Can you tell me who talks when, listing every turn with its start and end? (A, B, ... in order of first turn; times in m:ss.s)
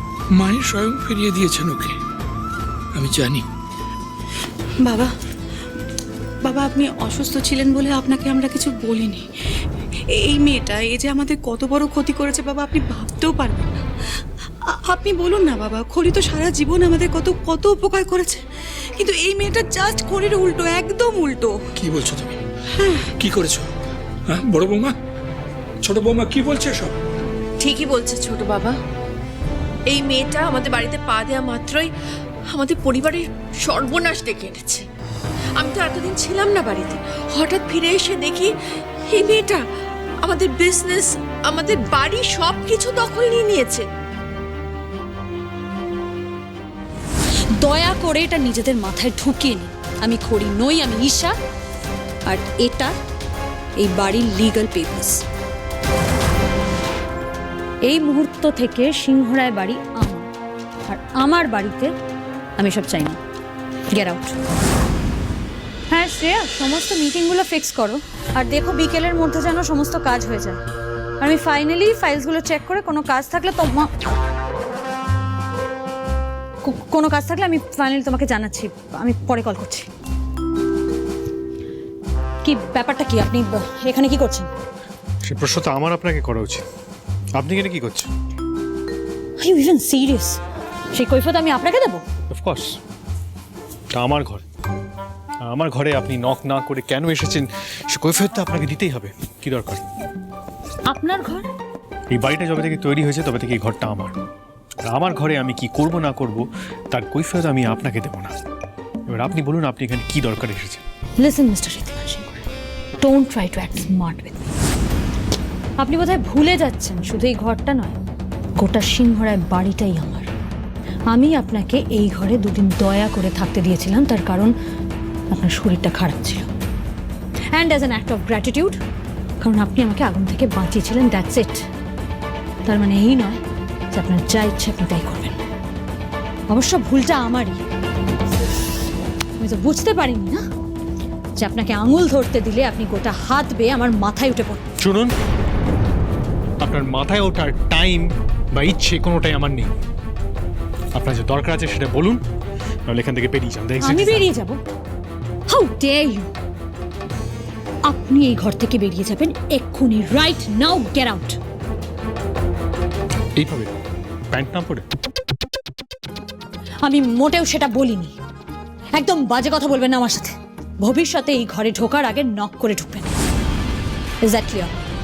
0:00.4-0:02.0 A
0:03.0-0:03.4 A
0:04.8-0:05.1 B
0:06.4-0:09.2 B
0:10.2-0:13.8 B
0:14.7-0:18.4 B
0:19.0-0:21.6 B
0:21.8-0:22.4 A
0:23.2-0:23.7 A
0:24.3-0:24.9 A
0:25.8-0:26.9 A
0:27.6-0:28.8 C
0:29.9-0:31.9 C
0:32.5-0:34.8 C
0:35.6-0:38.5 C
0:39.1-0:39.6 C
0:40.2-0:43.9 C
0:47.6-0:51.3 D
0:52.2-0:52.9 D
0:53.8-0:55.2 D
0:57.8-1:00.3 D
1:00.9-1:01.9 D
1:02.6-1:03.2 D
1:03.9-1:04.4 D
1:05.9-1:10.6 D
1:11.2-1:13.9 D
1:16.6-1:19.9 D
1:22.4-1:24.5 D
1:25.2-1:26.6 E
1:27.4-1:28.1 E
1:29.4-1:30.4 D
1:30.9-1:32.0 D
1:32.3-1:32.7 E
1:33.9-1:34.4 E
1:35.4-1:39.8 E
1:40.9-1:41.5 D
1:42.1-1:44.1 E
1:44.8-1:48.3 E
1:49.1-1:50.8 E
1:51.2-1:52.4 D
1:53.0-1:54.5 D
1:55.8-1:58.0 D
1:58.6-2:00.3 D
2:01.1-2:04.5 D
2:05.3-2:06.5 D
2:07.5-2:08.8 D
2:09.4-2:11.6 D
2:12.6-2:13.4 D
2:13.9-2:15.4 D
2:16.5-2:17.6 D
2:19.4-2:20.4 D
2:21.4-2:24.6 D
2:24.8-2:25.1 E
2:26.6-2:29.7 E
2:31.0-2:32.2 E
2:32.9-2:34.2 E
2:33.8-2:34.6 D
2:35.5-2:36.3 D
2:37.9-2:41.4 D
2:43.4-2:43.7 E
2:44.3-2:44.8 E
2:46.8-2:48.1 D
2:48.9-2:53.2 D
2:54.2-2:54.7 D